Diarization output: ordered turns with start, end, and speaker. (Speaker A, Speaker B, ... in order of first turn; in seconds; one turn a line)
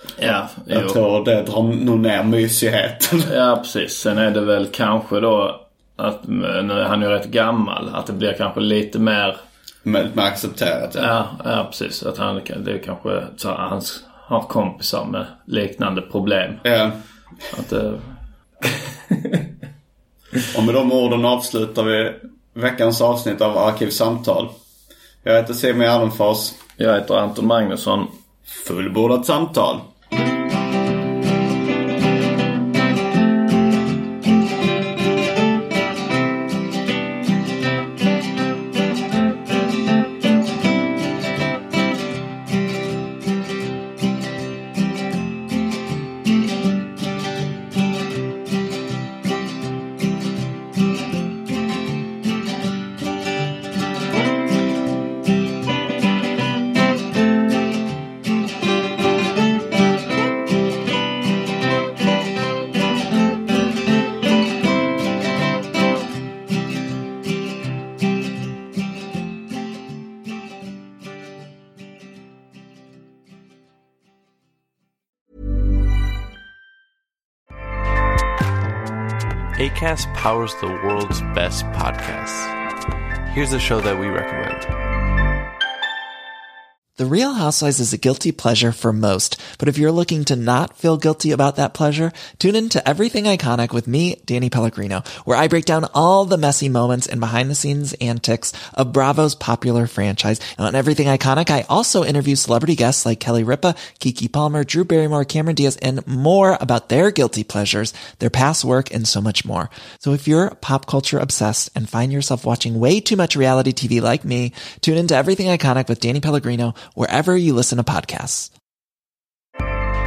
Speaker A: 0.2-1.0
Speaker B: 0.7-3.3
Speaker A: 3.2-9.4
Speaker B: 9.8-11.1
Speaker A: 11.0-16.6
Speaker B: 16.6-17.0
Speaker A: 17.5-19.4
Speaker B: 20.5-24.5
Speaker B: 25.2-26.6
Speaker A: 26.8-28.1
Speaker B: 28.5-29.8
Speaker C: 79.5-82.5
Speaker C: 83.3-84.7
Speaker D: 87.0-118.5